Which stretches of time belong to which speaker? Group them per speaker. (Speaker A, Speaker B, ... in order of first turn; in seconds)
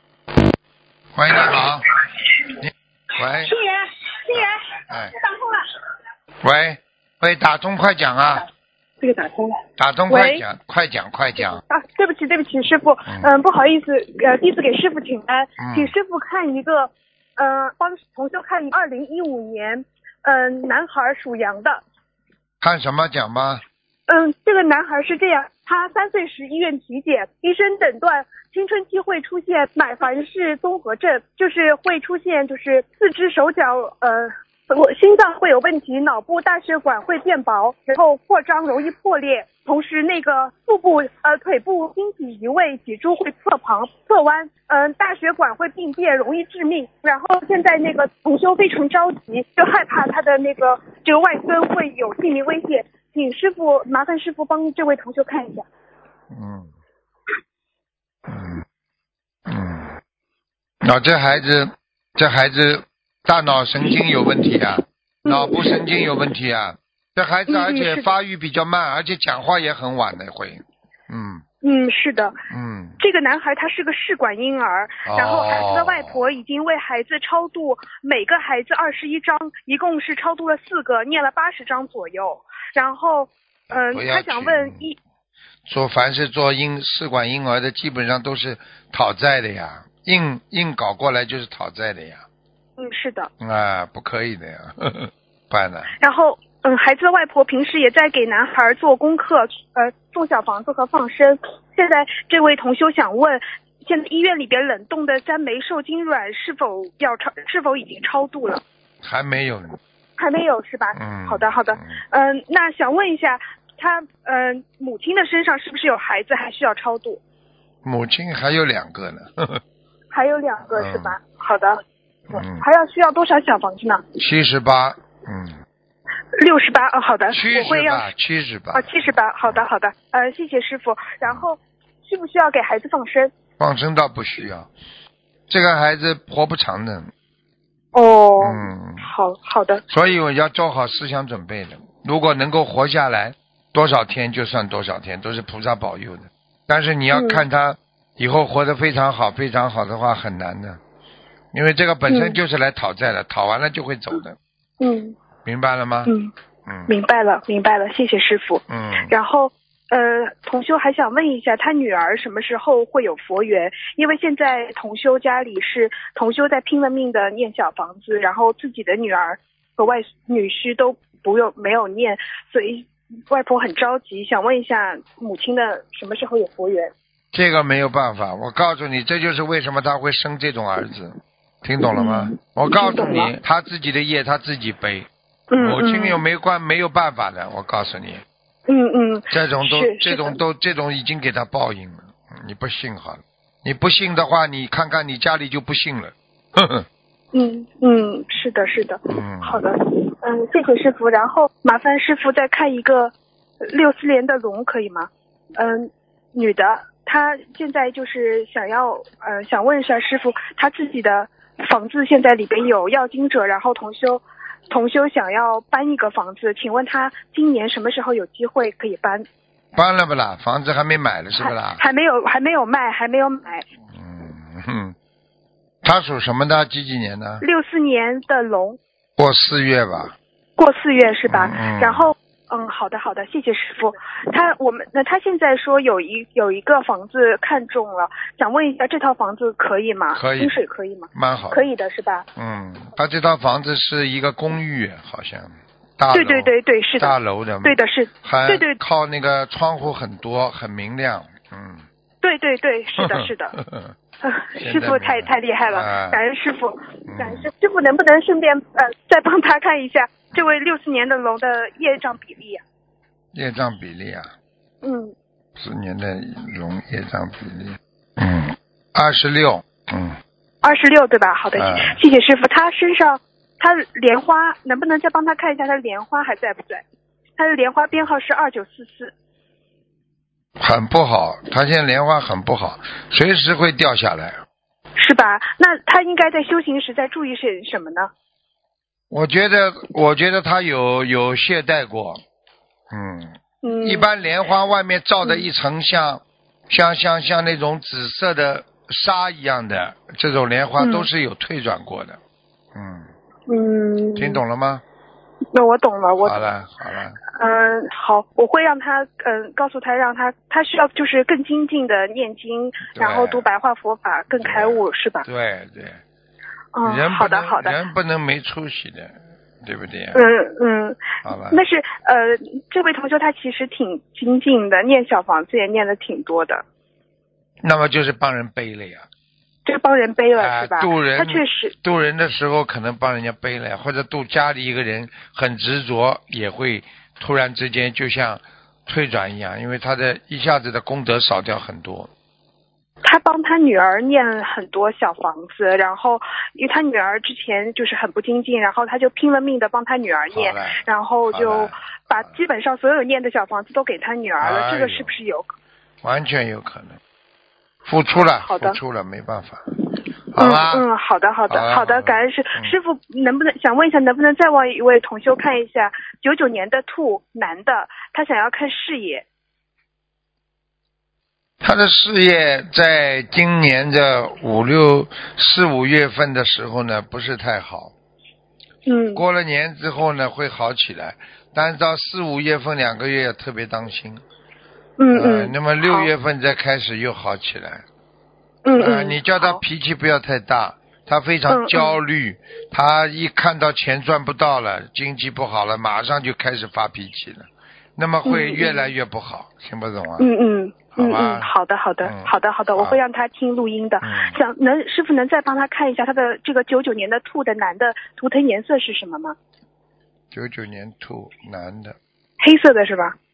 Speaker A: 1.1-1.9, 2.6-3.5, 4.9-5.2, 6.4-8.4, 9.8-11.6, 13.1-13.3, 15.6-15.9, 22.6-23.6, 56.3-56.7, 58.3-58.6, 59.5-60.0, 60.8-71.4, 72.5-73.0, 75.0-76.2, 83.7-84.8, 85.7-92.2, 93.4-95.9, 109.0-109.8, 110.9-112.0, 117.8-119.6, 120.7-121.2, 122.3-122.6, 124.2-125.6, 127.3-129.6, 133.6-134.7, 135.5-137.1, 138.4-139.1, 139.9-150.8, 151.5-154.4, 155.4-156.1, 156.7-156.9, 158.7-159.1, 177.3-188.2, 189.3-196.8, 199.1-199.6, 219.7-221.8, 223.9-224.9, 225.8-227.4, 229.2-230.1, 231.3-232.1, 240.1-240.6, 241.1-241.7, 242.3-251.8, 252.9-253.9, 254.6-256.2, 257.1-257.5, 263.3-264.3, 265.6-270.2, 271.5-272.0, 280.6-284.4, 289.1-292.2, 292.9-302.2, 302.7-303.1, 304.1-304.8, 306.2-307.2, 312.9-313.4, 314.4-316.0, 316.8-320.3, 321.2-321.6, 327.6-329.1, 330.4-342.1, 350.3-352.4, 354.4-355.1, 356.0-357.0, 357.9-359.6, 360.3-360.9, 361.5-362.8, 371.6-377.9, 379.1-384.2, 385.1-387.8, 388.8-400.3, 400.9-401.5, 402.0-403.0, 404.0-404.4, 410.3-412.0
Speaker B: 3.4-4.6, 5.3-5.6, 9.0-10.4, 11.4-21.8, 24.1-55.6, 65.2-65.8, 67.5-68.1, 71.6-72.3, 73.0-84.9, 92.8-93.3, 96.0-108.6, 110.2-117.2, 120.1-121.8, 122.3-124.0, 126.4-128.1, 128.7-133.3, 137.9-139.8, 147.1-147.4, 152.1-152.4, 154.8-155.2, 156.1-156.3, 156.9-176.9, 181.8-183.3, 185.5-186.2, 188.7-190.4, 197.3-203.1, 203.7-219.2, 221.4-223.6, 227.4-228.8, 230.6-242.2, 246.1-248.8, 252.2-253.5, 254.2-262.6, 264.8-265.1, 270.6-276.8, 277.4-279.1, 285.0-288.1, 293.6-294.1, 300.8-301.1, 303.5-304.4, 305.5-306.4, 307.3-315.2, 316.7-317.8, 320.1-326.6, 329.6-331.7, 343.0-355.5, 358.4-358.8, 360.4-369.2, 378.9-379.2, 385.0-386.1, 388.6-389.6, 391.5-392.0, 398.2-398.9, 400.2-409.4, 412.4-413.1